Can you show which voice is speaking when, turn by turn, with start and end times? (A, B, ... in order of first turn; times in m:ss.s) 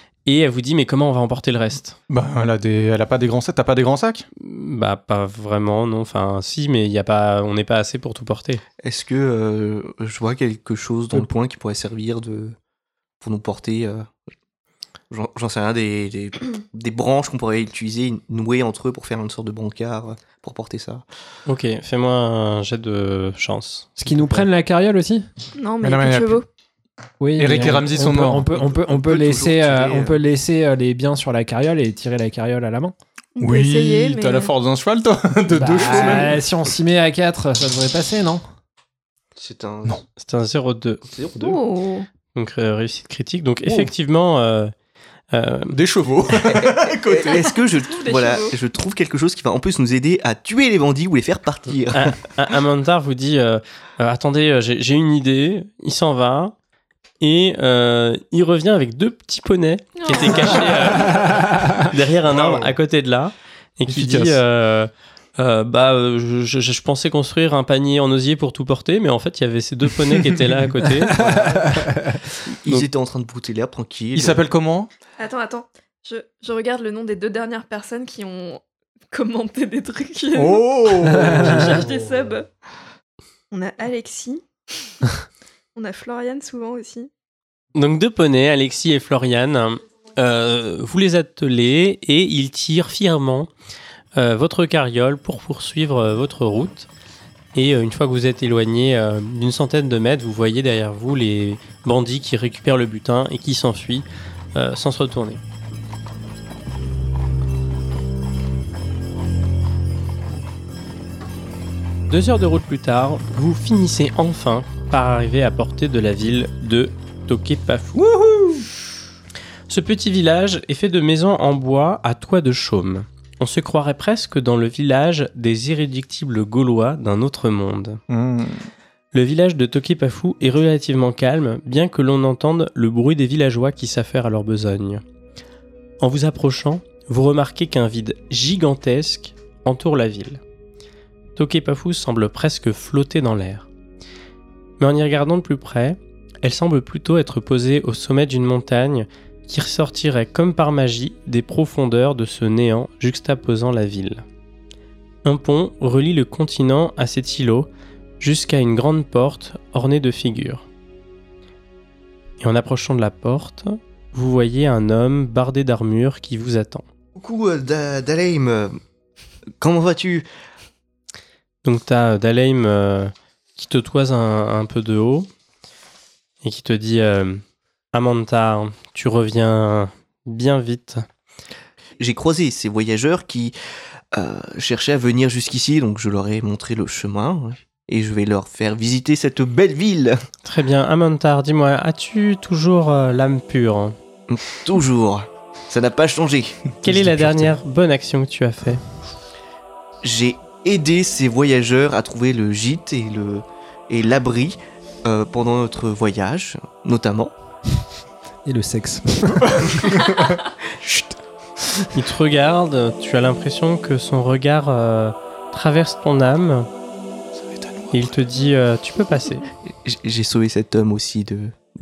0:00.2-0:02.0 A
0:02.1-0:04.2 B
0:04.4-0:08.6 A
0:08.8-0:12.6 C
0:13.2-0:14.1 C
0:15.1-0:21.0 C
0:21.4-0:24.5 A
0:24.0-0:25.3 D
0:25.6-0:26.4 E
0:25.8-0:26.4 B
0:27.2-0:32.9 D
0:27.4-0:28.6 B
0:28.5-0:30.2 C
0:33.4-0:34.5 E
0:33.4-0:36.4 B
0:35.5-0:38.4 D
0:39.4-0:40.0 C
0:40.2-0:41.0 A
0:41.0-0:41.6 C
0:41.4-0:42.1 E
0:42.3-0:44.7 A
0:45.3-0:45.8 A
0:45.7-0:47.4 B
0:46.4-0:52.2 C
0:47.2-0:48.5 E
0:51.9-0:56.5 A
0:57.2-1:11.2 A
1:00.0-1:00.9 E
1:01.1-1:01.8 D
1:02.3-1:02.6 B
1:03.9-1:04.4 B
1:11.1-1:12.2 D
1:11.2-1:11.6 C
1:12.5-1:14.4 C
1:14.1-1:14.9 B
1:15.2-1:22.5 E
1:20.3-1:21.8 B
1:21.1-1:21.5 D
1:23.5-1:24.9 E
1:25.8-1:27.1 E
1:27.8-1:33.5 A
1:34.2-1:36.9 A
1:37.5-1:45.4 A
1:52.1-1:58.8 A
1:59.7-2:08.0 A
2:08.1-2:08.7 B
2:09.1-2:15.0 A
2:16.0-2:20.4 A
2:21.4-2:23.7 A
2:24.8-2:34.2 A
2:35.2-2:37.7 A
2:38.2-2:40.6 A
2:42.4-2:46.8 A
2:47.2-2:48.8 C
2:49.6-2:50.3 C
2:51.6-2:55.3 A
2:56.4-2:57.4 A
2:57.9-3:01.0 A
3:02.0-3:03.5 C
3:04.1-3:10.2 C
3:10.4-3:14.0 A
3:14.3-3:16.7 C
3:16.8-3:17.5 B
3:16.8-3:18.9 A
3:20.0-3:27.3 C
3:28.4-3:29.9 D
3:29.4-3:31.1 B
3:31.9-3:36.7 A
3:37.3-3:38.2 B
3:37.9-3:39.4 A
3:39.7-3:41.5 C